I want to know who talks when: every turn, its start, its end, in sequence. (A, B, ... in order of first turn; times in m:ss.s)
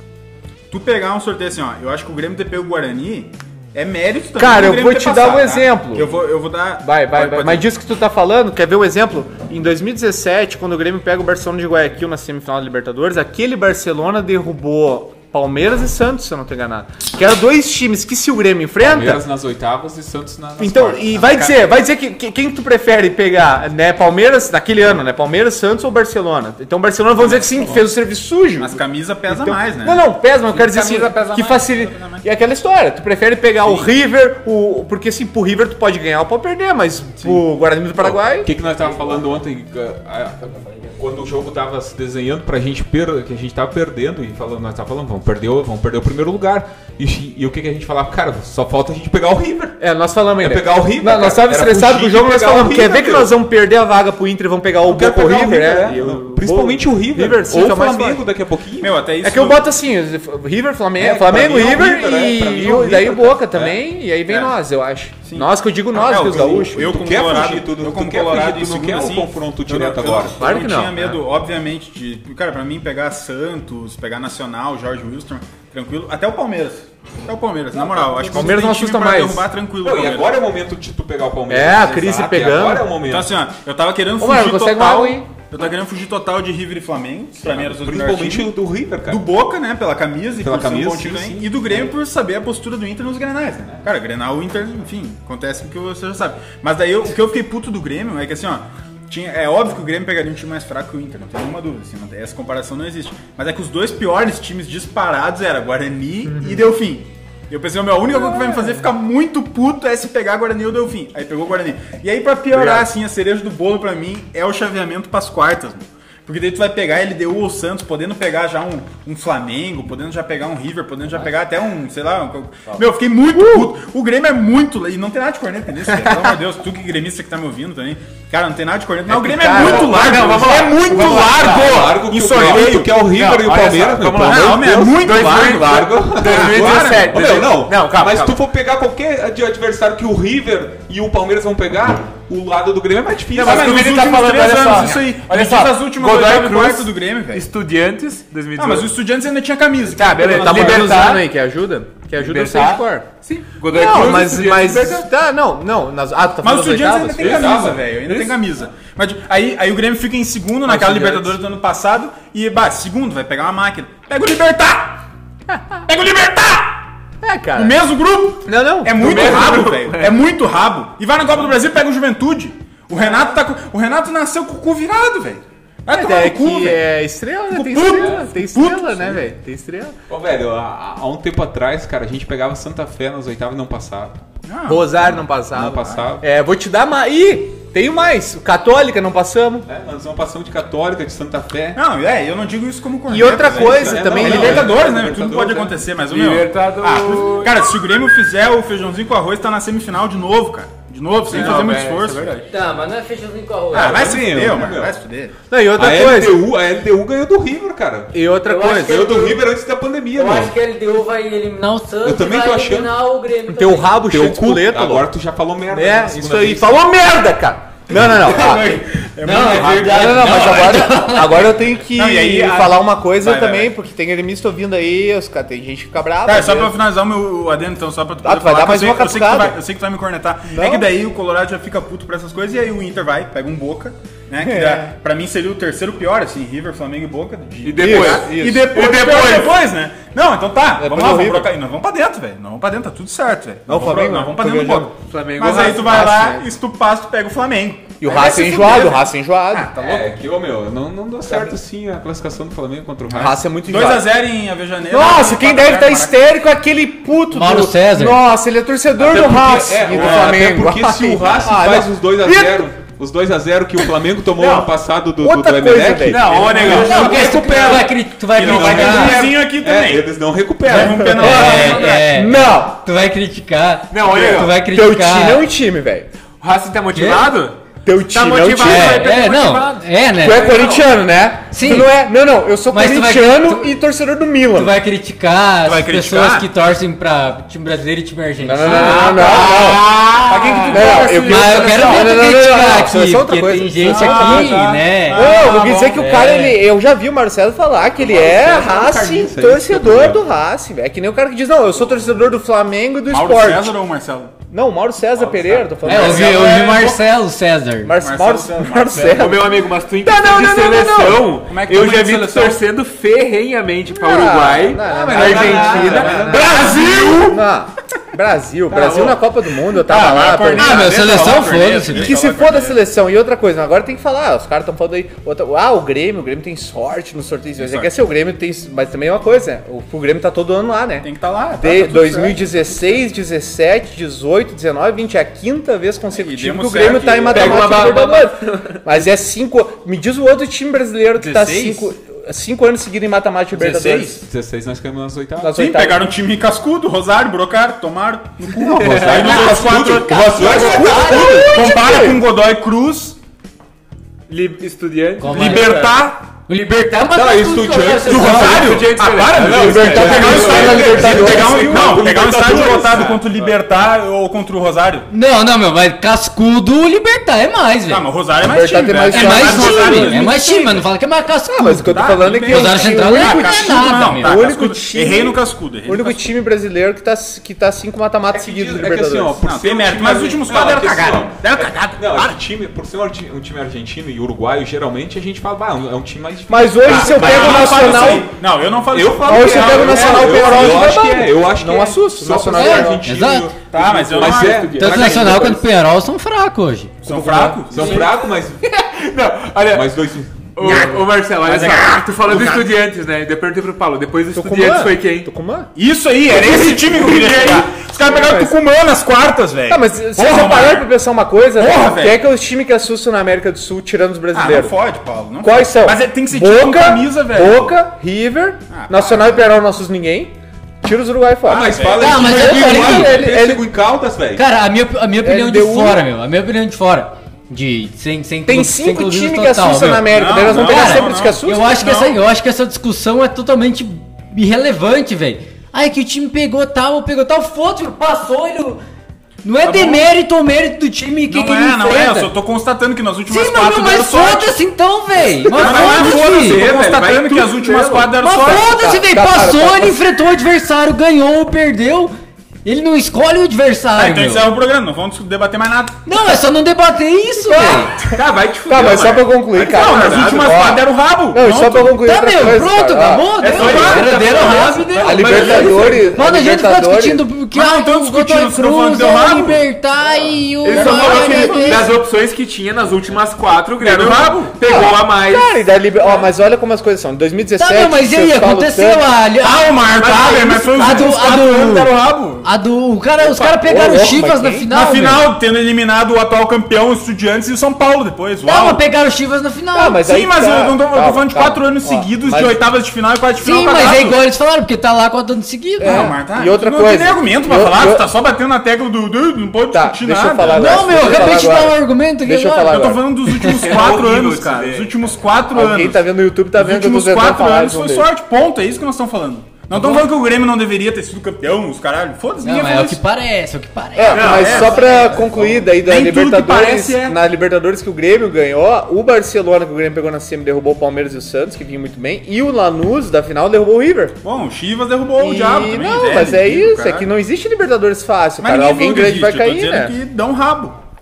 0:00.7-0:07.7 A
0:04.4-0:06.1 B
0:06.8-0:19.2 B
0:18.8-0:21.6 C
0:20.6-0:38.5 B
0:27.2-0:27.7 A
0:28.6-0:32.2 A
0:33.6-0:33.9 A
0:37.2-0:37.4 A
0:38.0-0:49.8 C
0:49.8-0:58.2 B
0:50.4-0:53.3 C
0:54.8-0:58.9 C
0:58.8-0:59.6 A
0:59.2-1:07.0 B
1:01.0-1:03.8 C
1:04.3-1:04.5 A
1:05.2-1:20.4 A
1:06.8-1:10.4 C
1:10.4-1:11.2 B
1:18.1-1:18.5 C
1:18.3-1:19.5 B
1:19.8-1:23.3 C
1:21.5-1:22.9 B
1:23.0-1:28.5 A
1:24.2-1:25.3 B
1:27.4-1:29.2 C
1:29.1-2:13.2 A
1:30.4-1:31.9 C
2:03.3-2:03.7 B
2:09.1-2:11.4 B
2:09.5-2:18.4 D
2:10.9-2:23.9 C
2:14.2-2:17.2 A
2:23.3-2:28.9 D
2:23.4-2:27.4 A
2:28.6-2:31.1 A
2:29.9-2:31.2 D
2:30.2-2:33.1 B
2:32.2-2:35.1 D
2:33.7-2:37.6 B
2:36.4-2:45.0 A
2:37.2-2:37.8 C
2:38.0-2:38.4 D
2:40.7-2:41.3 D
2:45.5-2:45.8 B
2:45.8-2:46.9 A
2:47.2-2:47.8 B
2:47.5-2:56.8 A
2:48.4-2:49.7 B
2:49.0-2:50.2 D
2:53.0-2:53.4 B
2:55.9-2:59.9 B
2:57.5-2:59.2 A
2:57.9-2:58.2 C
3:00.1-3:04.2 C
3:04.4-3:05.2 A
3:04.6-3:09.7 B
3:05.5-3:06.2 C
3:09.6-3:11.8 C
3:11.7-3:22.4 A
3:13.1-3:14.8 B
3:13.4-3:15.8 C
3:16.1-3:17.6 D
3:21.2-3:22.5 D
3:22.5-3:24.4 E
3:23.7-3:25.4 A
3:23.7-3:25.0 C
3:25.5-3:26.4 B
3:25.8-3:28.1 C
3:28.1-3:29.1 B
3:28.4-3:29.4 E
3:28.8-3:30.6 C
3:30.1-3:34.0 E
3:32.0-3:33.0 C
3:33.5-3:35.1 B
3:34.0-3:36.8 C
3:35.7-3:38.8 B
3:38.3-3:40.0 A
3:38.4-3:41.5 E
3:39.2-3:39.9 D
3:39.3-3:46.8 B
3:41.9-3:43.7 A
3:46.2-4:10.0 A
3:48.2-3:49.6 B
3:50.4-3:50.9 B
3:54.4-3:54.9 B
3:57.6-3:59.6 D
3:57.8-3:58.7 B
4:00.8-4:01.5 B
4:03.7-4:04.9 B
4:04.9-4:06.2 D
4:05.4-4:06.4 B
4:08.0-4:09.7 B
4:09.7-4:13.4 C
4:13.1-4:14.2 B
4:13.6-4:16.2 A
4:14.9-4:22.7 B
4:17.3-4:18.2 E
4:19.0-4:31.4 C
4:25.2-4:26.5 B
4:26.0-4:27.4 D
4:26.3-4:30.1 A
4:26.6-4:29.3 E
4:30.6-4:32.1 A
4:30.9-4:35.4 E
4:31.2-4:32.8 B
4:33.9-4:34.5 D
4:34.1-4:34.4 A
4:34.5-4:36.1 B
4:36.4-4:40.8 D
4:36.9-4:37.3 E
4:37.8-4:39.1 B
4:38.6-4:40.8 E
4:40.2-4:44.7 B
4:41.5-4:42.0 E
4:42.7-4:43.8 E
4:44.5-4:50.0 E
4:45.6-4:46.5 A
4:48.4-4:50.0 B
4:48.7-4:52.0 A
4:48.9-4:52.1 D
4:50.7-5:03.8 B
4:51.2-4:56.6 E
4:53.8-4:56.1 A
4:58.0-5:00.2 C
5:03.1-5:04.3 A
5:04.5-5:06.7 B
5:05.2-5:06.0 D
5:05.8-5:08.0 E
5:05.8-5:07.0 A
5:07.8-5:11.3 B
5:08.0-5:09.4 A
5:09.0-5:17.4 D
5:11.5-5:12.6 A
5:13.9-5:21.0 B
5:14.8-5:17.2 C
5:16.4-5:17.3 A
5:18.7-5:19.1 A
5:19.8-5:22.8 A
5:20.5-5:22.1 E
5:21.9-5:44.2 B
5:27.6-5:27.9 A
5:31.0-5:32.4 A
5:36.1-5:38.0 A
5:37.3-5:38.6 D
5:41.1-5:41.9 A
5:43.6-5:44.1 D
5:44.0-5:45.7 C
5:45.4-5:46.1 B
5:45.5-5:53.2 A
5:48.7-5:51.4 C
5:49.0-5:52.2 B
5:50.4-5:51.6 E
5:54.3-5:56.0 D
5:55.2-5:58.8 E
5:55.3-5:56.2 A
5:57.1-6:03.2 C
5:58.0-6:05.1 A
5:58.1-6:01.2 D
5:59.6-6:02.1 B
6:02.9-6:03.5 D
6:05.1-6:08.0 E
6:07.9-6:10.8 A
6:08.4-6:10.3 B
6:09.1-6:14.4 E
6:11.5-6:19.4 B
6:11.6-6:16.3 A
6:18.3-6:28.3 C
6:19.4-6:22.4 A
6:26.5-6:28.3 B
6:26.8-6:30.8 A
6:28.9-6:35.6 C
6:29.2-6:33.0 B
6:29.6-6:30.7 D
6:32.6-6:33.5 E
6:33.7-6:35.5 A
6:33.7-6:35.5 D
6:34.8-6:37.5 E
6:37.0-6:38.1 A
6:37.6-6:38.6 C
6:37.7-6:40.0 D
6:39.7-6:40.4 C
6:40.5-6:45.3 D
6:40.6-6:42.6 B
6:44.3-6:45.7 B
6:45.7-6:50.9 A
6:46.4-6:47.7 D
6:48.0-6:48.5 B
6:49.7-6:54.8 B
6:51.6-6:52.2 A
6:54.3-6:57.8 A
6:55.4-7:03.6 B
6:58.7-6:59.4 A
7:01.5-7:04.4 C
7:01.5-7:02.3 A
7:02.0-7:03.3 E
7:04.4-7:18.8 E
7:05.2-7:06.0 B
7:08.4-7:12.1 B
7:10.1-7:11.4 A
7:19.4-7:22.3 E
7:19.6-7:20.1 A
7:21.3-7:24.6 A
7:23.3-7:26.7 E
7:25.4-7:28.2 D
7:25.4-7:28.8 A
7:28.1-7:32.1 E
7:28.4-7:30.0 B
7:32.6-7:34.5 E
7:33.9-7:36.0 A
7:36.0-7:38.1 E
7:37.4-7:38.1 B
7:38.0-7:40.7 D
7:38.7-7:43.7 B
7:39.5-7:42.0 A
7:41.9-7:51.9 E
7:43.4-7:46.1 D
7:43.4-7:45.7 A
7:44.9-7:47.2 B
7:47.5-7:49.6 A
7:50.6-7:55.5 D
7:50.6-7:51.9 A
7:53.8-7:54.5 A
7:54.6-7:59.0 B
7:57.6-8:05.3 E
7:59.4-8:02.5 A
8:00.6-8:01.1 D
8:03.2-8:04.7 B
8:04.7-8:08.8 A
8:08.4-8:10.0 E
8:09.7-8:12.6 B
8:10.0-8:14.2 A
8:13.4-8:16.1 E
8:15.8-8:18.1 B
8:15.8-8:21.3 A
8:19.7-8:23.0 B
8:20.5-8:23.6 E
8:22.7-8:33.0 A
8:23.4-8:25.2 D
8:25.5-8:28.1 B
8:29.7-8:30.0 E
8:32.4-8:35.2 E
8:34.0-8:44.2 B
8:34.1-8:37.2 A
8:34.1-8:34.9 D
8:44.2-8:47.1 A
8:45.2-8:50.0 B
8:48.4-8:50.8 A